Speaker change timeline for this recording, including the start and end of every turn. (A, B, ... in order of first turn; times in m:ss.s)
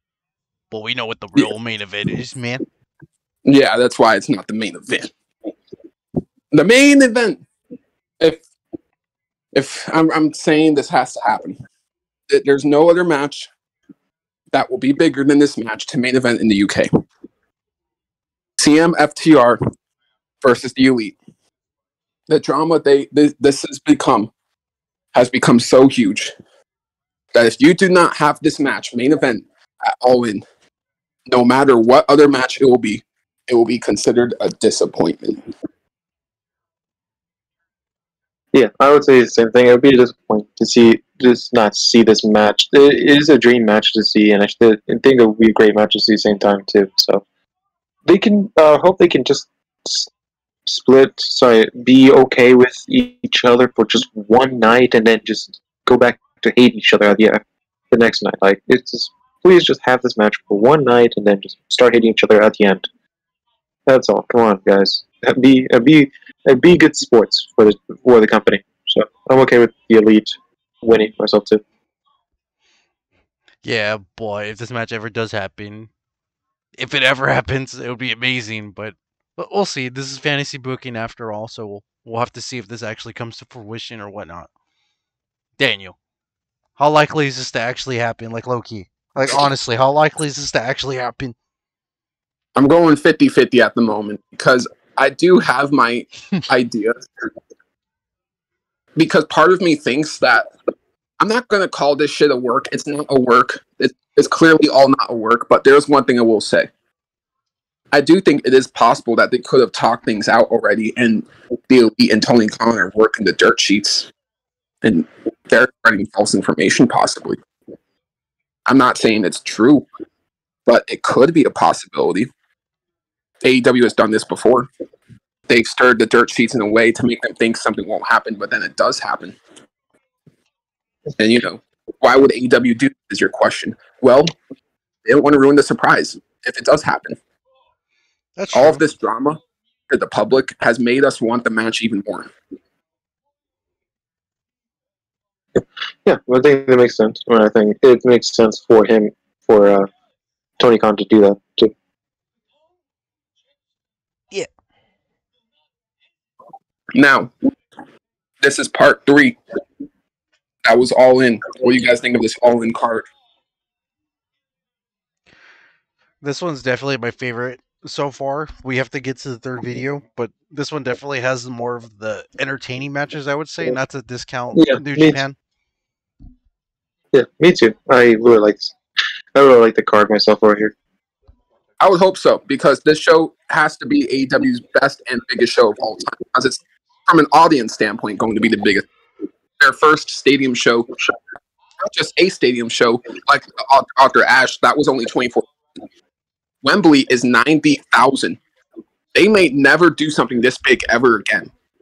0:00.7-0:02.6 A
0:03.4-0:05.1 B
0:06.5-0:07.4 B
0:09.5-0:11.6 B
0:12.3-0:13.5 B
0:14.5-0:16.9 B
0:18.6-0:19.6 B
0:20.4-0:21.2 B
0:22.3-0:24.3 B
0:25.1-0:26.3 B
0:27.3-0:30.4 B
0:31.3-0:35.4 B
0:38.5-0:47.2 C
0:48.0-0:50.1 C
0:50.6-1:02.9 C
1:03.9-1:11.6 C
1:13.6-1:15.9 A
1:16.8-1:24.5 A
1:25.6-1:26.0 A
1:26.8-1:31.3 A
1:29.2-1:29.4 B
1:32.6-1:37.3 B
1:39.0-1:40.5 B
1:41.2-1:46.7 B
1:47.9-1:54.1 B
1:54.8-1:57.4 B
1:58.7-1:59.8 B
2:00.7-2:02.3 B
2:03.4-2:04.7 B
2:05.5-2:09.4 B
2:11.2-2:14.3 B
2:15.0-2:17.2 B
2:18.4-2:18.8 A
2:18.5-2:22.3 B
2:25.5-2:29.9 C
2:30.6-2:31.7 C
2:36.9-2:37.3 B
2:38.4-2:39.4 B
2:40.6-2:43.1 B
2:46.2-2:55.4 A
2:54.5-2:55.2 C
2:57.1-2:58.7 C
2:59.3-3:00.7 C
3:01.8-3:08.9 B
3:09.6-3:11.0 B
3:11.8-3:15.5 B
3:16.6-3:18.4 B
3:19.1-3:21.5 B